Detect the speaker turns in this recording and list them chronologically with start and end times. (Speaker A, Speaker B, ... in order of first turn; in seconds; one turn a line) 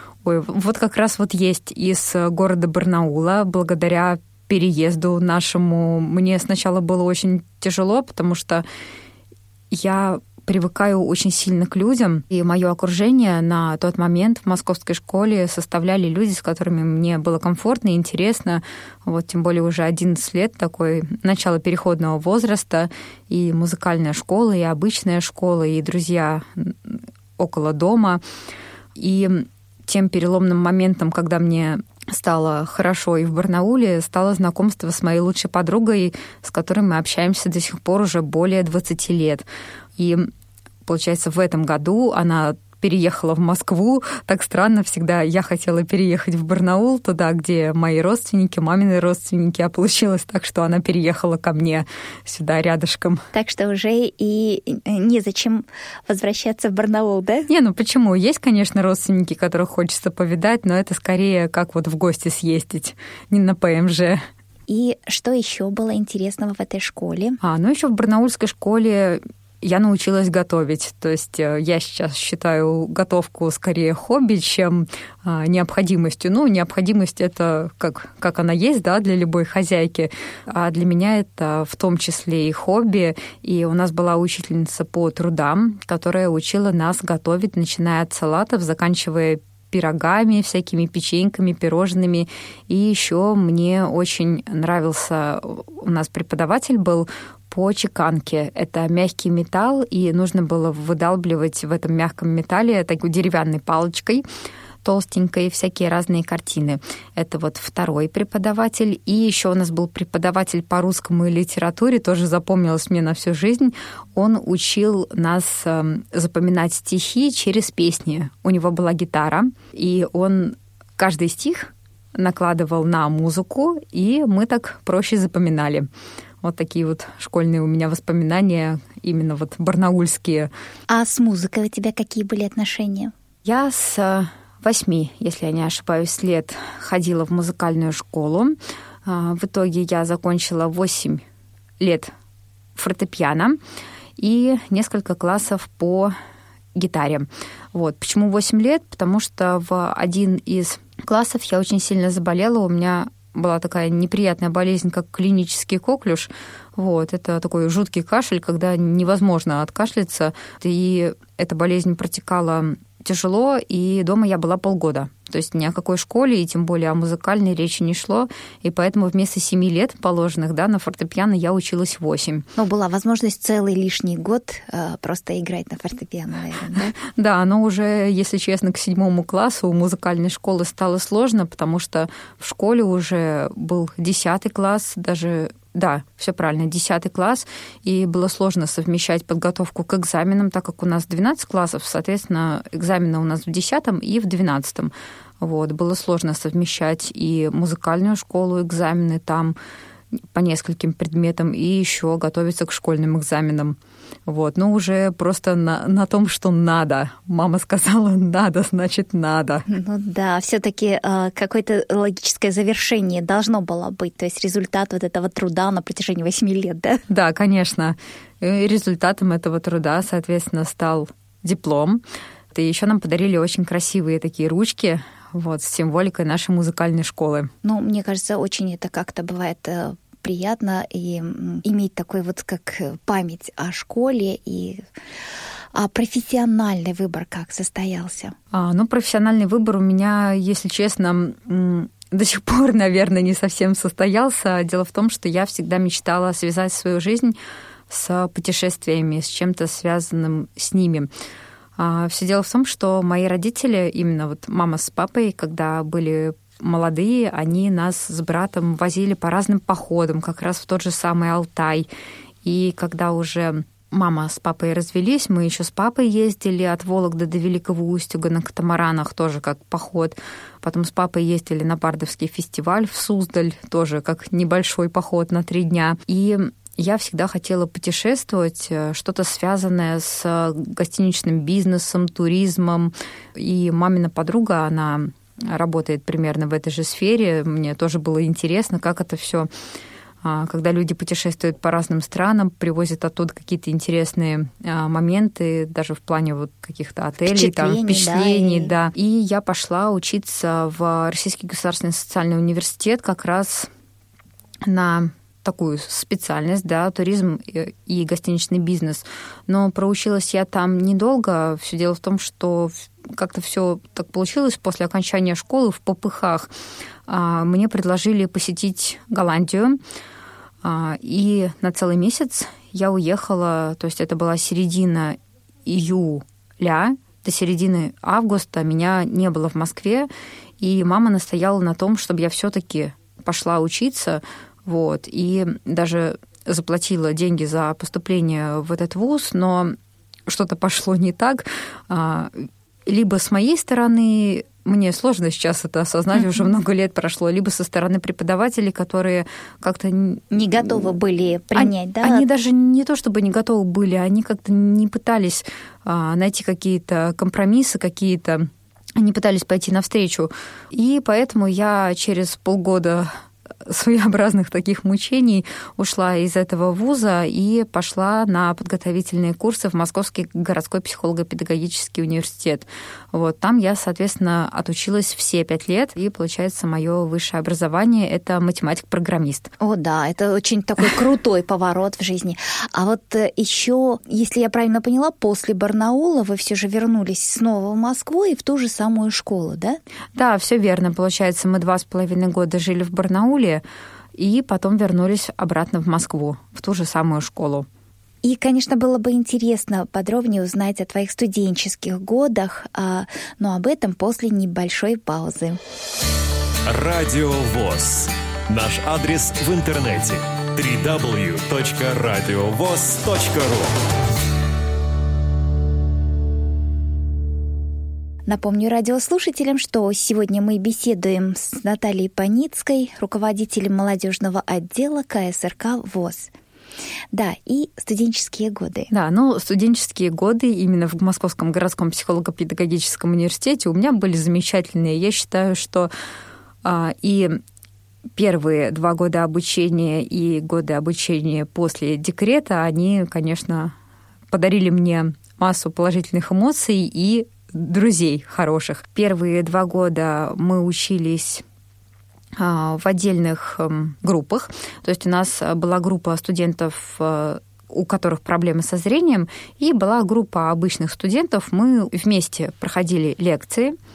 Speaker A: 0.2-8.6
Speaker A: 9.7-28.2
Speaker A: 29.0-39.5
Speaker A: 40.0-40.3
Speaker A: 40.8-53.2
Speaker B: 53.3-57.5
Speaker A: 57.5-64.2
Speaker B: 64.7-67.4
Speaker A: 67.4-104.2
Speaker A: 104.8-125.9
Speaker A: 126.4-130.5
Speaker B: 130.9-133.1
Speaker A: 133.4-141.2
Speaker A: 141.8-142.1
Speaker A: 142.8-143.6
Speaker A: 144.2-146.2
Speaker A: 146.8-172.5
Speaker B: 172.6-177.0
Speaker A: 177.0-199.6
Speaker A: 200.3-209.7
Speaker B: 209.7-217.0
Speaker A: 217.1-227.5
Speaker B: 227.6-234.8
Speaker B: 235.7-238.3
Speaker A: 238.5-247.3
Speaker A: 247.9-251.1
Speaker A: 251.8-261.9
Speaker A: 262.4-289.5
Speaker A: 290.2-303.7
Speaker B: 297.2-298.7
Speaker A: 304.6-316.5
Speaker A: 317.1-319.8
Speaker A: 320.6-330.1
Speaker A: 330.6-339.8
Speaker A: 340.3-350.3
Speaker B: 350.3-352.2
Speaker A: 351.6-363.1
Speaker A: 363.6-379.5
Speaker B: 379.6-389.8
Speaker A: 390.1-393.6
Speaker A: 394.1-397.7
Speaker B: 398.2-405.6
Speaker C: 406.7-413.7
Speaker B: 418.3-426.3
Speaker B: 427.1-428.9
Speaker A: 428.9-435.9
Speaker A: 436.6-437.4
Speaker A: 438.1-443.8
Speaker A: 444.3-451.4
Speaker A: 452.4-463.8